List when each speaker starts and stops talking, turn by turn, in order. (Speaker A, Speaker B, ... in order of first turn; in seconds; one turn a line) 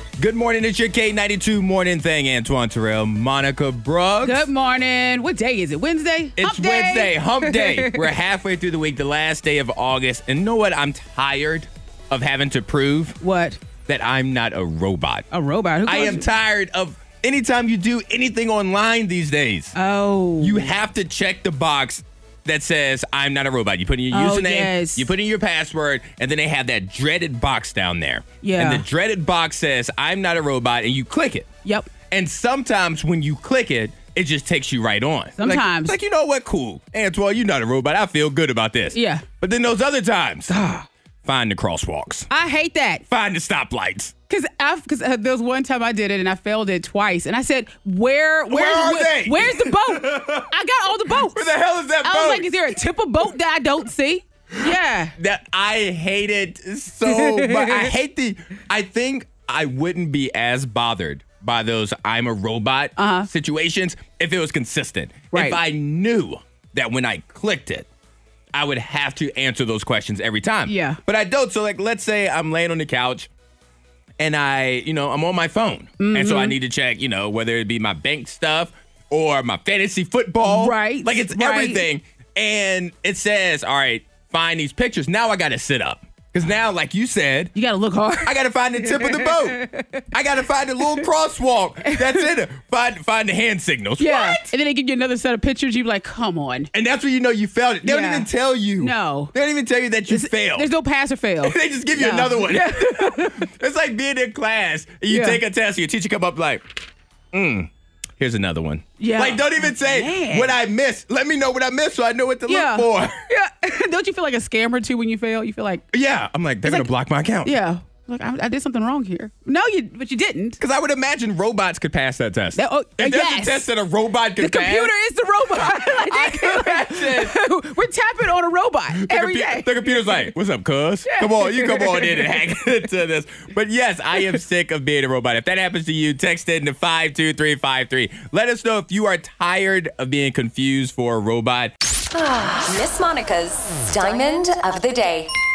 Speaker A: 0.2-4.5
Speaker B: 4.2-8.1
Speaker A: 6.4-13.2
Speaker B: 13.2-13.6
Speaker A: 13.9-15.3
Speaker B: 15.3-16.3
Speaker A: 15.9-19.8
Speaker B: 19.8-20.7
Speaker A: 20.4-31.5
Speaker B: 24.1-25.1
Speaker B: 28.4-28.9
Speaker B: 31.6-31.9
Speaker A: 32.1-42.3
Speaker B: 35.4-36.0
Speaker B: 38.9-39.2
Speaker B: 42.3-43.0
Speaker A: 43.1-44.1
Speaker B: 44.3-51.5
Speaker A: 48.5-50.5
Speaker A: 51.3-52.8
Speaker B: 52.0-55.2
Speaker A: 55.2-67.9
Speaker B: 57.1-57.9
Speaker B: 63.0-63.3
Speaker B: 65.3-65.6
Speaker A: 68.5-73.3
Speaker B: 70.7-71.0
Speaker A: 74.2-87.5
Speaker B: 76.0-76.5
Speaker B: 80.4-81.8
Speaker B: 87.5-90.0
Speaker A: 88.2-94.5
Speaker B: 91.8-92.3
Speaker B: 94.0-96.7
Speaker A: 96.7-100.7
Speaker B: 97.8-98.3
Speaker B: 98.8-99.3
Speaker B: 100.1-103.5
Speaker A: 101.4-106.7
Speaker B: 105.1-105.4
Speaker A: 107.3-113.2
Speaker B: 109.0-110.6
Speaker B: 112.5-115.8
Speaker A: 115.9-117.5
Speaker B: 117.4-120.6
Speaker A: 120.6-124.9
Speaker B: 122.5-123.7
Speaker B: 124.4-130.3
Speaker A: 125.6-127.4
Speaker A: 128.9-141.7
Speaker B: 131.1-132.3
Speaker C: 142.1-145.3